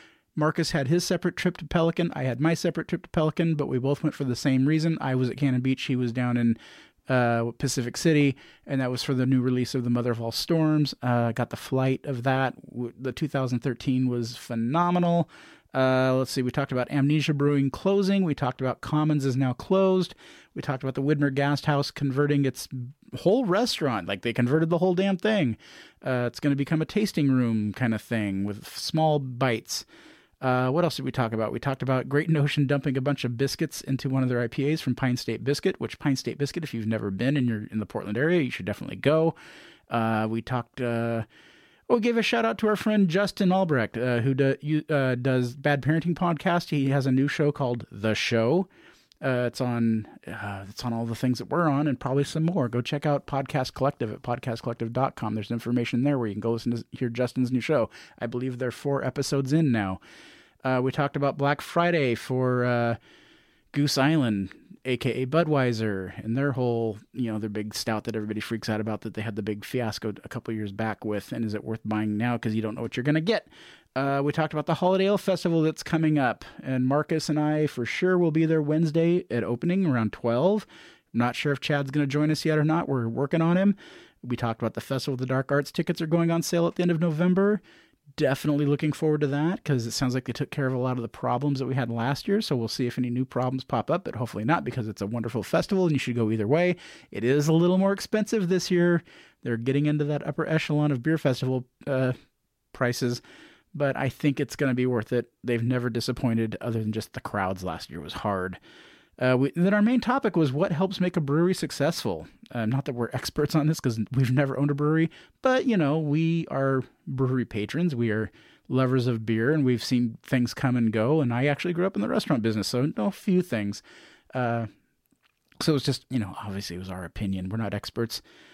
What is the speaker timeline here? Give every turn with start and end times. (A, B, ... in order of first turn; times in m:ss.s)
0:00.4-0:29.9 A
0:30.4-0:39.4 A
0:39.9-0:41.2 A
0:41.9-0:48.7 A
0:49.2-1:00.0 A
1:00.6-1:03.0 A
1:03.7-1:27.6 A
1:28.2-1:42.2 A
1:42.7-1:43.2 A
1:43.7-1:48.6 A
1:49.2-2:03.8 A
2:04.3-2:04.7 A
2:05.6-2:08.2 A